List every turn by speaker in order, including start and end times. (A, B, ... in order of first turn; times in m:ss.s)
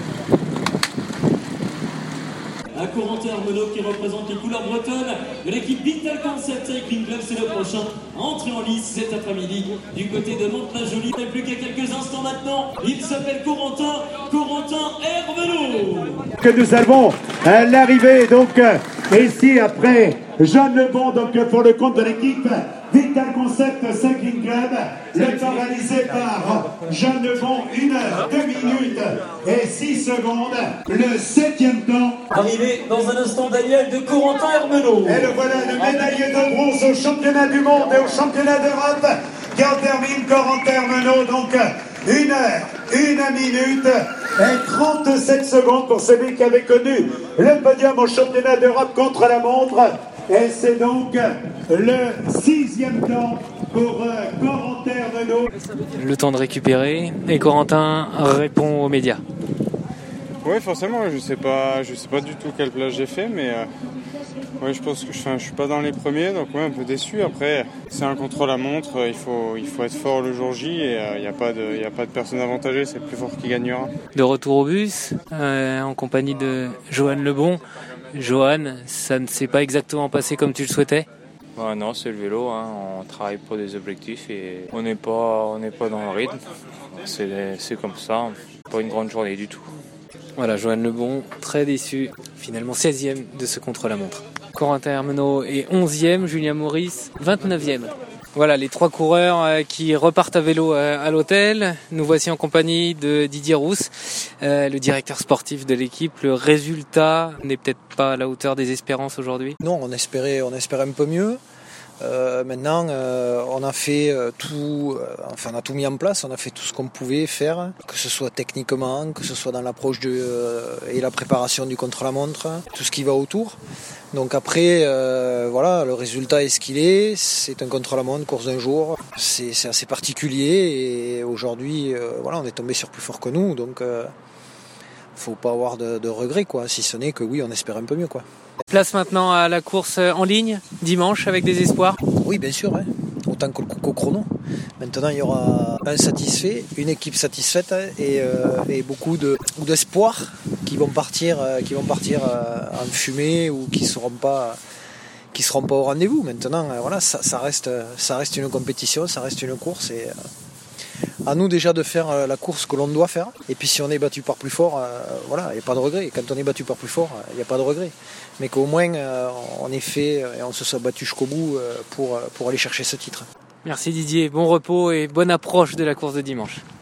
0:02.7-0:16.3 A
0:16.4-0:32.2 B
0:32.3-0:35.4 A
0:35.0-0:55.5 B
0:56.0-0:59.2 C
1:00.4-1:03.7 D
1:04.6-1:13.9 D
1:14.1-1:21.1 C
1:21.6-1:26.4 E
1:27.0-1:29.7 E
1:30.4-1:49.6 C
1:49.6-1:51.4 F
1:52.0-2:03.6 F
2:04.1-2:14.1 F
2:15.2-2:18.2 F
2:18.7-2:22.0 C
2:22.2-2:24.3 F
2:24.8-2:34.6 F
2:35.3-2:40.1 F
2:41.3-2:53.3 F
2:53.6-2:56.6 C